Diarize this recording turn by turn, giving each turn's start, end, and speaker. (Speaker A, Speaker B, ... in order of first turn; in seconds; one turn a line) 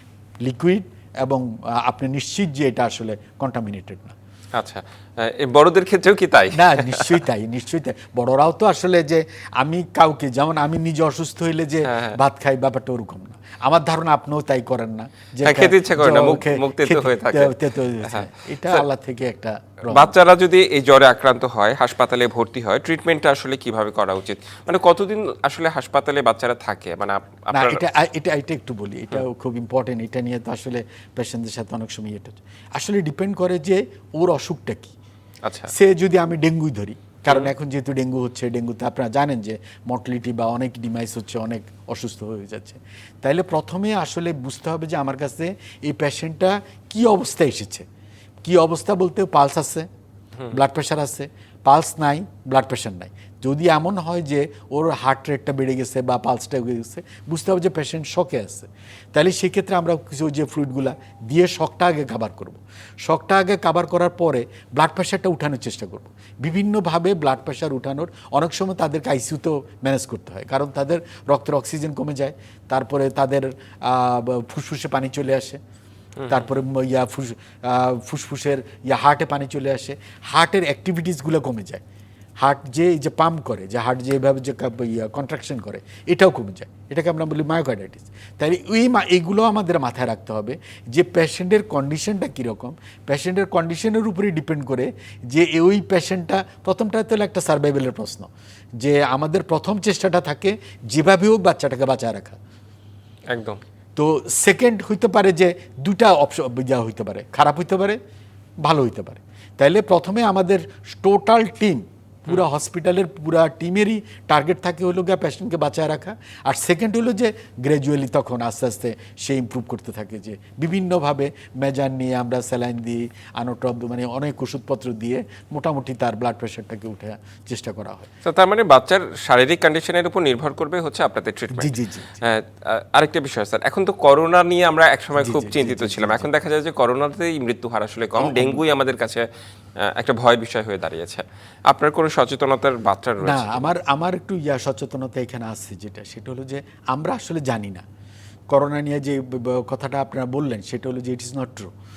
Speaker A: 0.4-4.1
Speaker B: 4.5-7.2
Speaker A: 6.5-20.1
Speaker B: 11.8-12.2
Speaker B: 15.4-18.8
Speaker B: 19.9-27.9
Speaker A: 27.5-34.9
Speaker B: 35.4-35.7
Speaker A: 35.7-47.9
Speaker A: 48.4-49.9
Speaker A: 50.5-75.6
Speaker B: 76.2-76.5
Speaker A: 76.3-81.8
Speaker A: 82.4-102.4
Speaker B: 103.3-103.6
Speaker A: 104.0-108.0
Speaker A: 108.6-128.1
Speaker B: 128.2-139.3
Speaker A: 131.5-132.1
Speaker A: 135.2-136.3
Speaker A: 138.2-138.6
Speaker B: 139.8-143.7
Speaker A: 143.2-147.8
Speaker A: 148.5-151.7